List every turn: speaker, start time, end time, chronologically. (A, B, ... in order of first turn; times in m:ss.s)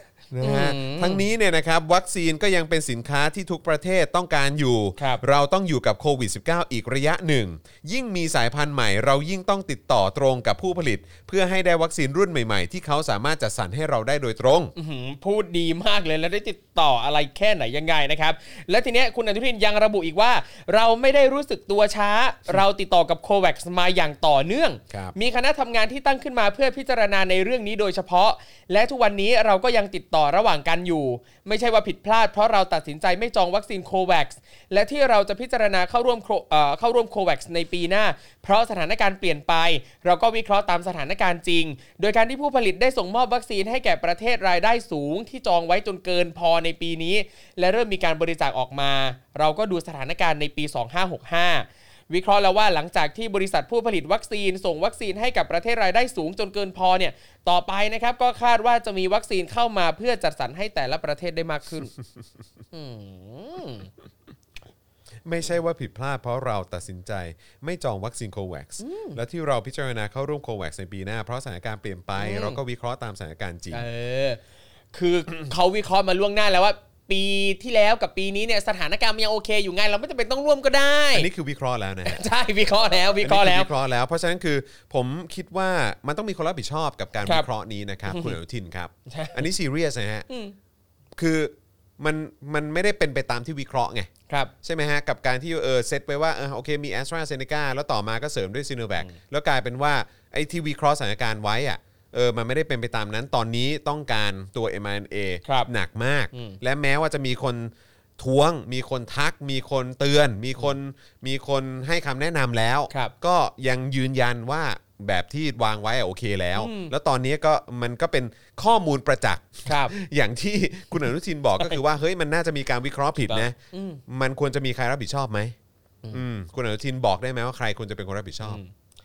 0:00.3-0:14.7 A
0:00.4-0:01.2 B
0:05.0-0:05.2 B
0:14.8-1:01.9 B
1:02.7-1:03.9 B
1:05.2-1:13.8 A
1:08.8-1:09.2 B
1:12.2-1:12.6 B
1:13.7-1:14.4 B
1:14.9-1:21.3 B
1:21.1-1:22.2 A
1:22.0-1:23.7 B
1:23.2-1:30.3 A
1:28.1-1:28.4 B
1:29.1-1:29.4 B
1:30.3-1:30.5 B
1:31.2-1:34.1 A
1:34.6-2:05.5 A
1:46.3-1:46.6 B
1:56.6-1:56.9 B
1:59.6-1:59.9 B
2:03.3-2:04.0 B
2:06.1-2:08.6 A
2:08.4-2:08.7 B